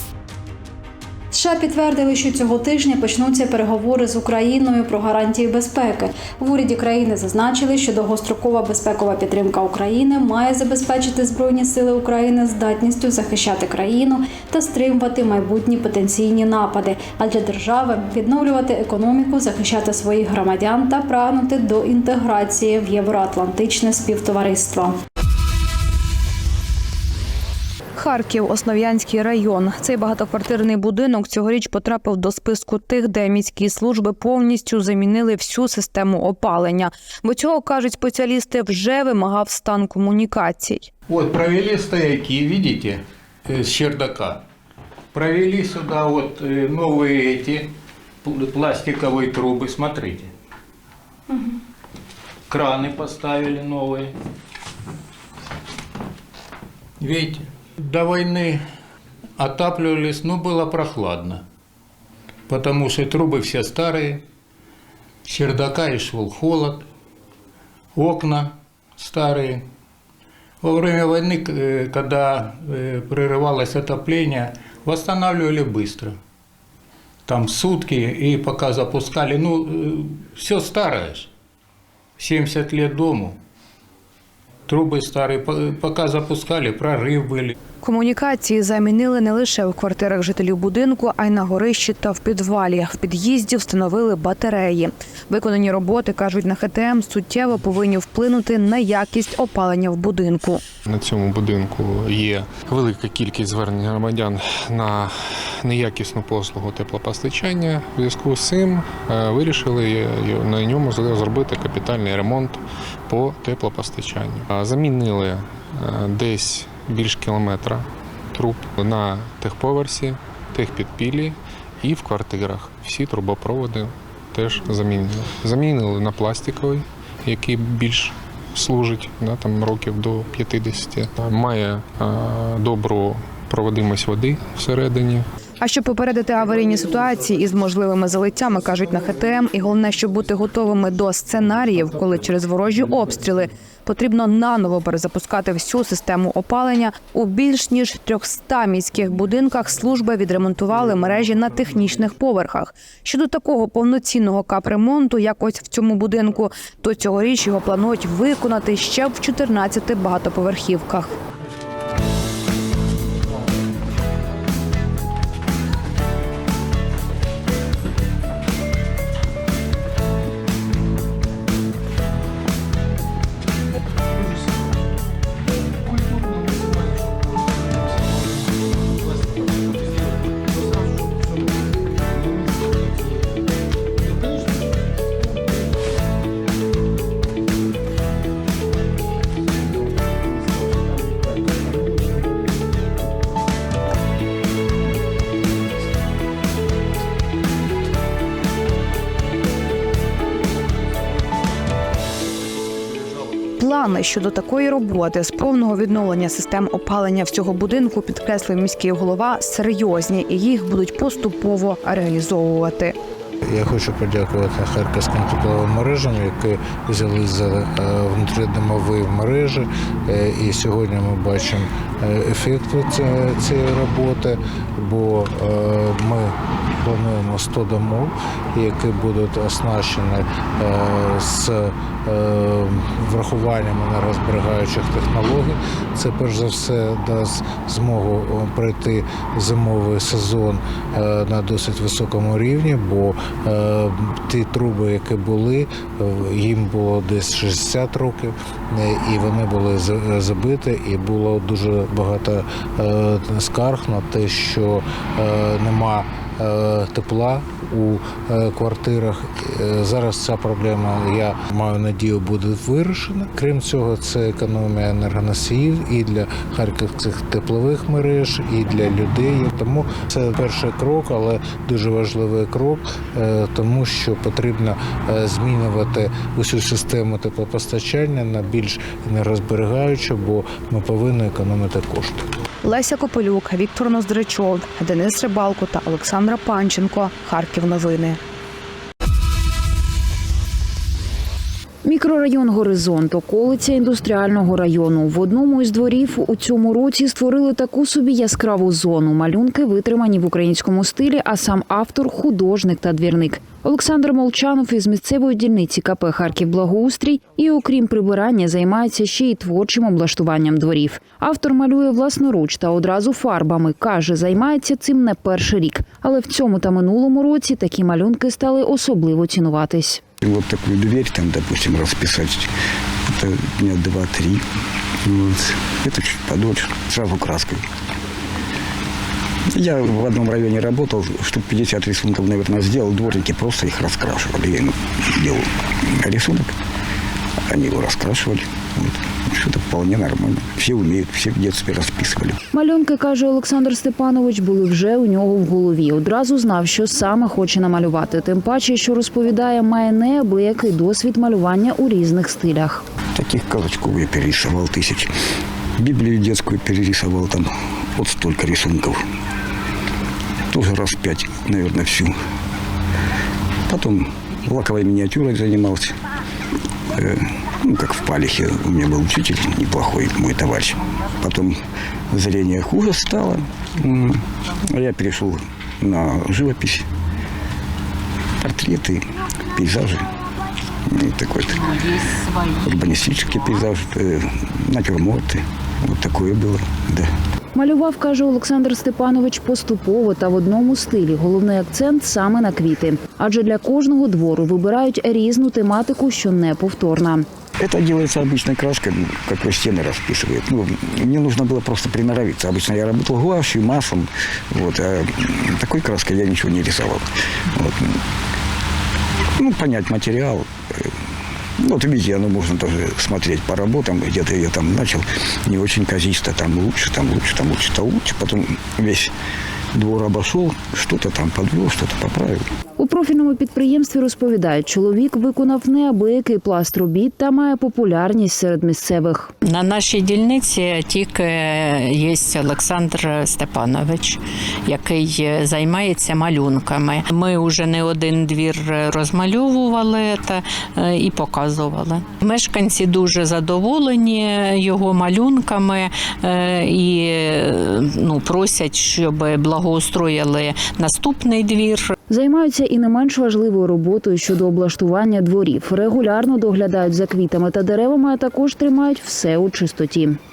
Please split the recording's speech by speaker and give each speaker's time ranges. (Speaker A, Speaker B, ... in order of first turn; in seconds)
Speaker A: 1.3-24.9
Speaker B: 28.0-40.9, 87.8-100.6, 135.6-161.1, 203.6-212.9, 282.6-288.2
Speaker C: 41.1-43.0, 43.5-44.4, 45.1-47.6, 48.2-50.2, 52.5-54.1, 57.0-58.6, 59.4-61.4, 62.5-64.2, 65.3-66.8, 68.0-69.6, 70.6-76.1, 77.3-81.3, 82.2-83.3, 84.7-87.5
Speaker D: 100.9-135.2
Speaker E: 213.5-282.3
Speaker F: 291.8-320.0, 342.5-352.8, 387.5-397.2, 422.8-429.3, 452.1-460.2
Speaker G: 320.2-322.5, 323.1-324.4, 325.0-327.6, 329.6-336.5, 337.5-342.4, 353.1-355.1, 355.8-359.0, 360.5-362.1, 363.7-365.9, 366.9-371.6, 372.1-376.9, 378.4-380.1, 380.9-381.7, 382.6-387.1, 397.6-407.9, 409.4-410.4, 411.6-419.1, 419.7-422.4
Speaker H: 429.4-451.9